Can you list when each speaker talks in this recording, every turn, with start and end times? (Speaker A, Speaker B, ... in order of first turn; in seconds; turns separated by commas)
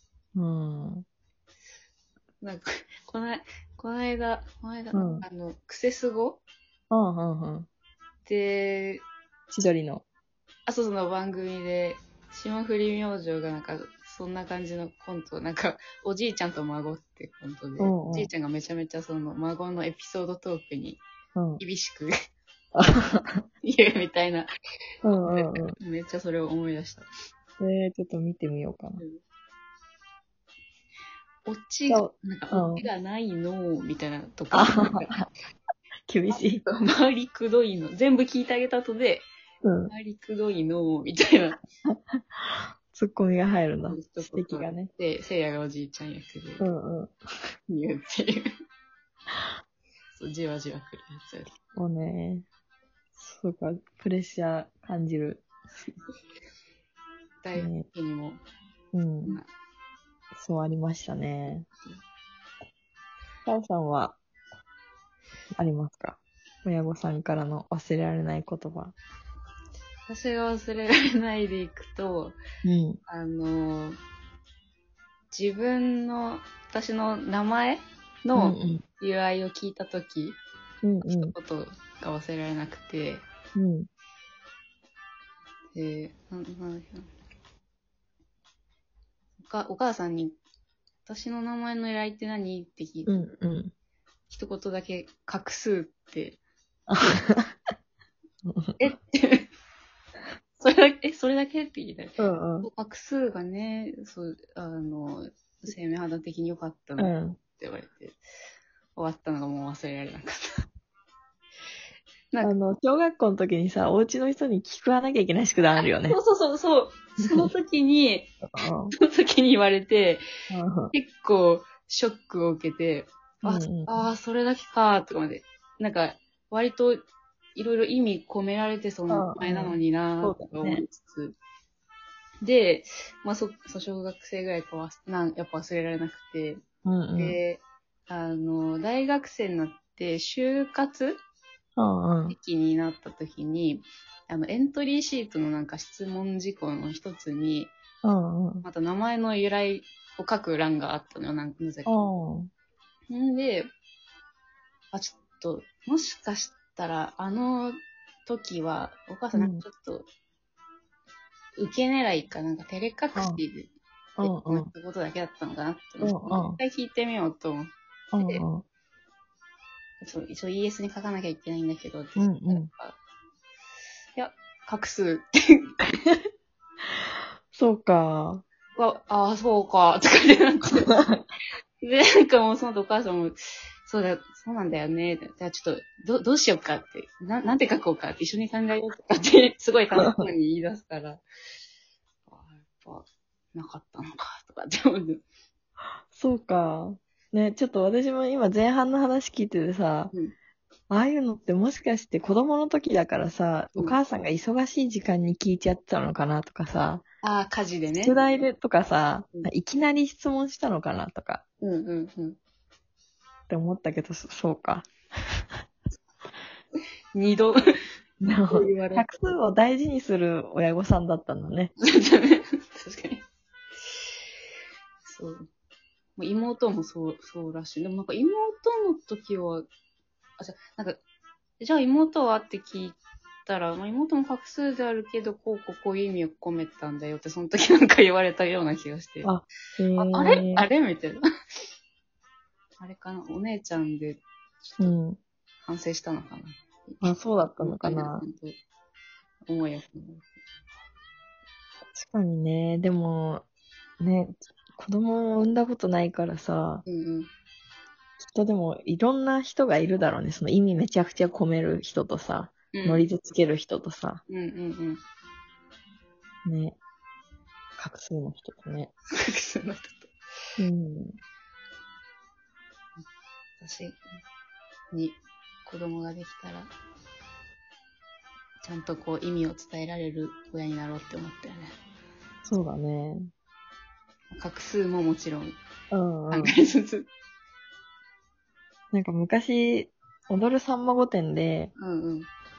Speaker A: 0.4-1.1, Speaker B: 2.4-6.4, Speaker A: 4.9-5.2, Speaker A: 6.9-7.7, Speaker B: 8.2-9.1, Speaker A: 9.5-10.1, Speaker B: 10.7-21.0, Speaker A: 17.8-18.3, Speaker A: 21.4-21.6, Speaker B: 21.6-22.1, Speaker A: 22.8-23.4, Speaker B: 23.6-24.5, Speaker A: 25.0-25.8, Speaker B: 25.3-27.1, Speaker A: 27.6-29.0, Speaker B: 29.0-29.2, Speaker B: 31.5-35.2, Speaker A: 31.9-32.9, Speaker A: 34.5-35.3, Speaker A: 36.1-36.7, Speaker B: 36.3-39.2, Speaker A: 39.6-39.9, Speaker B: 39.9-41.6, Speaker A: 41.9-44.9, Speaker B: 43.9-46.7, Speaker A: 46.6-47.1, Speaker B: 47.7-48.5, Speaker B: 50.1-51.5, Speaker A: 51.8-52.5, Speaker A: 53.2-55.5, Speaker B: 57.4-58.4, Speaker A: 57.5-57.9, Speaker A: 58.9-59.4, Speaker A: 60.3-61.7, Speaker A: 63.5-64.2, Speaker A: 65.6-69.0, Speaker B: 70.1-72.4, Speaker A: 72.6-73.0, Speaker B: 73.1-74.0, Speaker B: 75.3-80.4, Speaker A: 78.3-78.8, Speaker A: 80.8-81.3, Speaker B: 81.0-83.2, Speaker A: 83.6-83.9, Speaker B: 85.7-87.1, Speaker B: 89.4-90.4, Speaker B: 91.0-93.2, Speaker A: 93.1-93.7, Speaker B: 94.3-96.4, Speaker A: 96.9-97.5, Speaker A: 98.5-98.8, Speaker B: 98.8-99.5, Speaker B: 100.6-108.2, Speaker A: 102.2-102.7, Speaker A: 107.0-107.4, Speaker B: 109.0-110.5, Speaker B: 112.3-112.6, Speaker A: 112.4-116.2, Speaker B: 115.8-118.3, Speaker A: 117.2-117.5, Speaker A: 118.5-119.0, Speaker B: 118.9-120.3, Speaker A: 120.5-120.9, Speaker B: 120.9-127.0, Speaker A: 123.4-124.1, Speaker B: 127.5-131.4, Speaker A: 129.1-130.8, Speaker B: 132.4-136.6, Speaker A: 136.8-137.4, Speaker B: 137.2-141.2, Speaker A: 141.8-142.4, Speaker B: 142.3-147.7, Speaker A: 148.0-148.7, Speaker B: 148.6-152.0, Speaker A: 151.9-152.5, Speaker B: 153.1-153.7, Speaker B: 154.9-160.1, Speaker A: 159.3-159.6, Speaker B: 161.6-168.4, Speaker A: 163.1-163.4, Speaker A: 164.2-164.7, Speaker A: 166.0-166.6, Speaker A: 168.1-168.7, Speaker B: 170.0-173.0, Speaker A: 172.2-172.7, Speaker B: 174.2-175.9, Speaker A: 177.5-178.4, Speaker B: 178.8-181.0, Speaker A: 180.9-181.2, Speaker B: 181.8-191.2, Speaker A: 190.0-190.2, Speaker B: 192.3-195.2, Speaker A: 196.1-200.1, Speaker A: 200.9-207.0, Speaker B: 207.2-208.2, Speaker A: 208.0-211.4, Speaker B: 211.6-212.4, Speaker A: 213.5-215.4, Speaker B: 217.1-217.6, Speaker A: 218.2-221.7, Speaker B: 218.5-219.3, Speaker B: 221.8-223.2, Speaker B: 225.1-225.5, Speaker B: 226.2-229.7, Speaker B: 230.4-231.0, Speaker B: 231.6-239.3, Speaker A: 239.2-240.7, Speaker B: 240.0-241.2, Speaker B: 242.8-245.0, Speaker A: 244.8-245.2, Speaker B: 245.7-248.6, Speaker A: 247.0-248.3, Speaker B: 249.5-250.3, Speaker A: 251.9-253.4, Speaker A: 254.0-256.8, Speaker B: 256.9-257.3, Speaker A: 258.2-264.2, Speaker B: 262.7-263.1, Speaker B: 264.3-265.0, Speaker A: 266.4-266.8, Speaker A: 267.8-268.9, Speaker B: 269.1-270.1, Speaker A: 270.6-271.2, Speaker B: 273.6-274.0, Speaker B: 274.9-276.7, Speaker B: 278.6-281.8, Speaker A: 282.4-283.3, Speaker B: 284.3-285.6, Speaker A: 285.9-286.5, Speaker B: 286.3-287.1, Speaker A: 288.9-291.7, Speaker B: 291.8-292.3